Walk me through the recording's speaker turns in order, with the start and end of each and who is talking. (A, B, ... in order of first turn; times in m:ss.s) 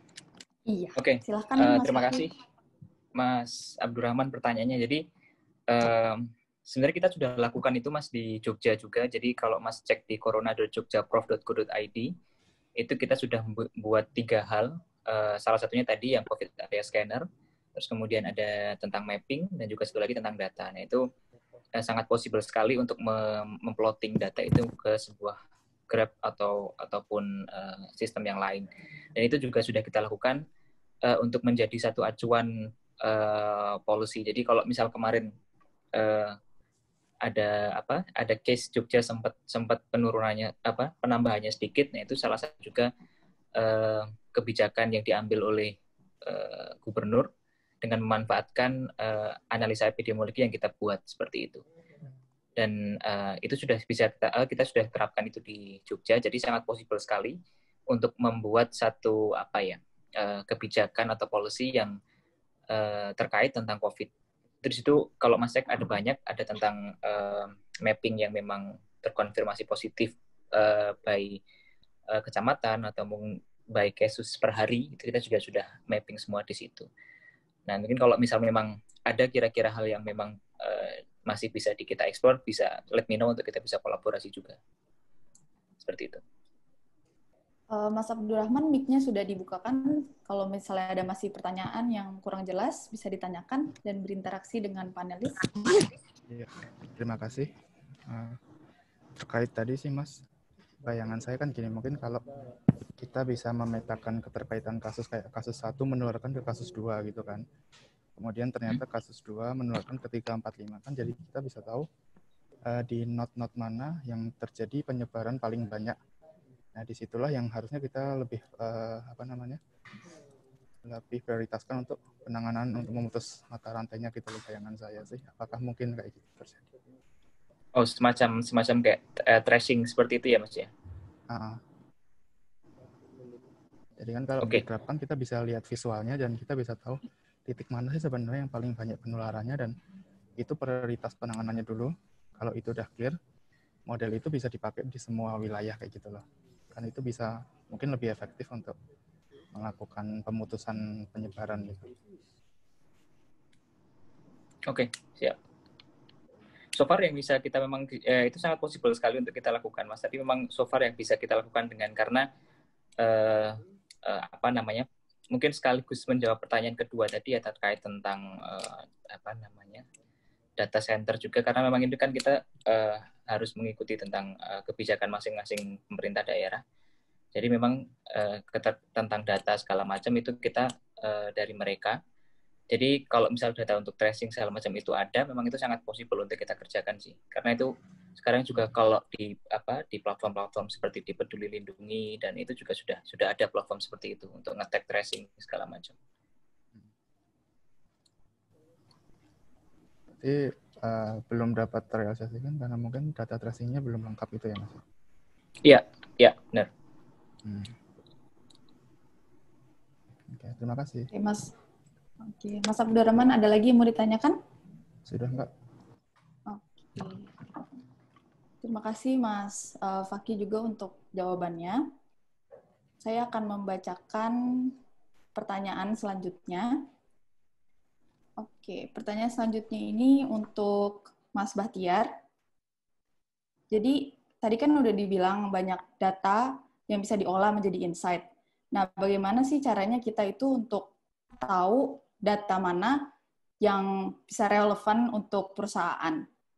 0:00.7-0:02.3 A
0:01.0-0:02.3 B
0:03.2-0:05.0 B
0:05.7-0:12.1 B
0:12.8-0:21.0 B
0:21.8-0:25.4 B
0:25.9-0:30.4 B
0:31.0-0:35.3 B
0:36.0-0:36.4 B
0:37.2-0:42.9 B
0:43.6-0:47.3 B
0:47.8-0:51.6 B
0:52.6-0:57.4 B
0:57.9-1:02.0 B
1:02.7-1:04.1 B
1:04.6-1:11.4 B
1:12.1-1:16.9 B
1:17.7-1:24.6 B
1:25.8-1:26.2 B
1:27.7-1:35.5 A
1:36.3-1:37.5 C
1:38.1-1:38.4 C
1:39.2-1:40.2 C
1:40.8-1:42.4 C
1:43.0-1:47.4 C
1:48.2-1:51.9 C
1:52.7-1:56.0 C
1:56.7-1:59.6 C
2:00.8-2:06.7 C
2:07.8-2:10.7 B
2:11.3-2:11.6 C
2:14.0-2:19.8 C
2:20.4-2:23.2 C
2:23.9-2:28.8 C
2:29.5-2:32.0 C
2:34.7-2:35.4 B
2:36.8-2:42.3 B
2:43.0-2:49.9 B
2:50.6-2:56.6 B
2:57.3-3:02.0 B
3:02.7-3:16.0 B
3:20.1-3:24.8 C
3:25.6-3:26.7 B
3:27.4-3:27.8 C
3:30.3-3:31.1 C
3:31.1-3:31.5 A
3:32.2-3:34.4 A
3:35.0-3:35.5 C
3:36.5-3:37.3 A
3:38.6-3:41.8 A
3:43.0-3:44.8 A
3:45.4-3:46.7 A
3:48.4-3:52.1 A
3:53.7-4:03.0 A
4:03.6-4:06.2 A